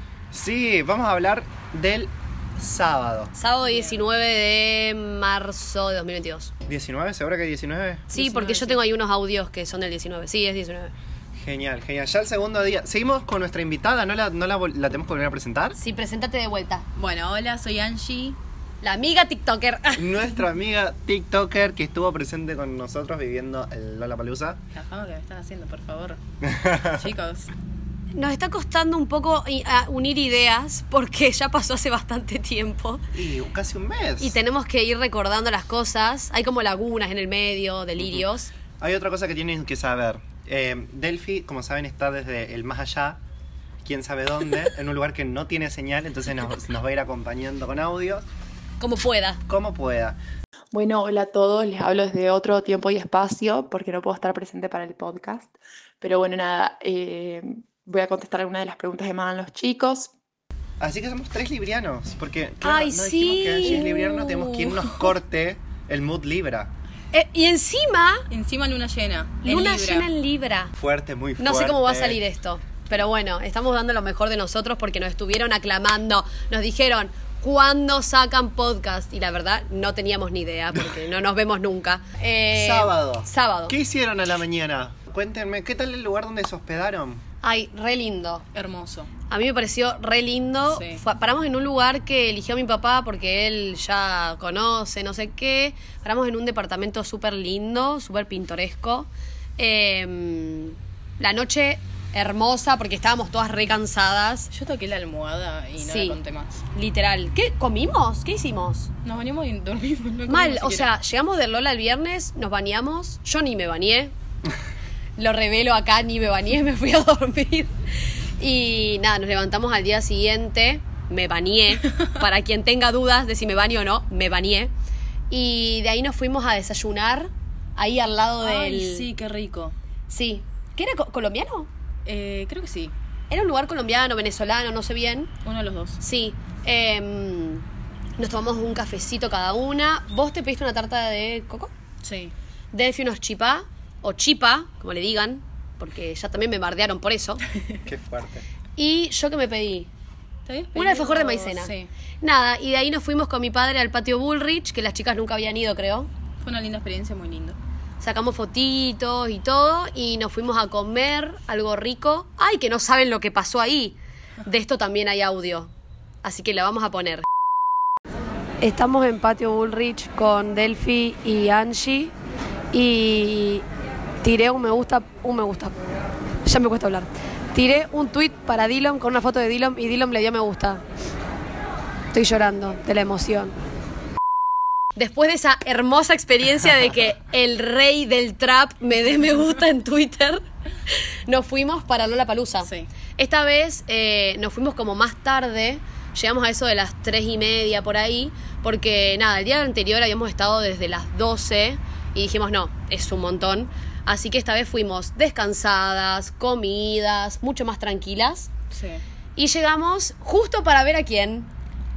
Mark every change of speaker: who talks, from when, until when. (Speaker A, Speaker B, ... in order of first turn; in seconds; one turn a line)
Speaker A: 0.3-3.3
Speaker B: 3.3-6.5
Speaker C: 3.6-4.0
Speaker A: 6.7-8.1
Speaker B: 8.1-10.9
Speaker C: 8.1-8.8
Speaker A: 11.3-15.8
Speaker B: 15.8-16.8
Speaker C: 16.9-18.4
Speaker B: 18.8-20.1
Speaker A: 19.9-24.6
Speaker C: 24.7-26.2
Speaker A: 26.4-26.9
Speaker C: 26.9-27.5
Speaker B: 28.1-33.0
Speaker A: 33.1-34.4
Speaker B: 34.2-38.5
Speaker A: 38.0-38.2
Speaker A: 38.8-43.2
Speaker A: 43.8-48.2
Speaker B: 48.8-49.4
Speaker A: 49.5-50.2
Speaker D: 50.7-60.1
Speaker A: 60.8-66.7
Speaker B: 62.6-64.0
Speaker C: 63.6-65.1
Speaker B: 67.1-68.2
Speaker C: 68.3-70.1
Speaker B: 69.4-70.7
Speaker A: 70.8-72.2
Speaker B: 71.4-83.8
Speaker A: 82.5-87.2
Speaker B: 87.4-88.4
Speaker C: 88.5-89.1
Speaker B: 89.3-104.5
Speaker C: 90.7-91.0
Speaker C: 104.5-106.6
Speaker B: 105.8-106.2
Speaker B: 106.7-108.9
Speaker C: 109.0-110.9
Speaker B: 110.3-114.1
Speaker B: 115.2-117.7
Speaker B: 118.4-124.7
Speaker B: 125.3-129.1
Speaker C: 128.4-129.7
Speaker B: 130.1-131.7
Speaker C: 132.1-132.9
Speaker B: 133.3-135.3
Speaker C: 135.4-136.0
Speaker B: 136.0-137.6
Speaker B: 138.2-141.7
Speaker C: 142.0-142.3
Speaker B: 142.7-147.4
Speaker A: 147.8-148.4
Speaker B: 148.8-149.9
Speaker C: 150.4-151.9
Speaker B: 150.7-156.1
Speaker C: 156.4-157.6
Speaker B: 158.0-165.7
Speaker B: 166.2-167.2
Speaker B: 168.6-172.1
Speaker B: 172.7-173.6
Speaker B: 174.2-175.8
Speaker B: 176.4-180.8
Speaker B: 182.1-183.5
Speaker B: 184.9-208.5
Speaker C: 192.6-192.9
Speaker C: 208.7-209.0
Speaker B: 209.3-211.5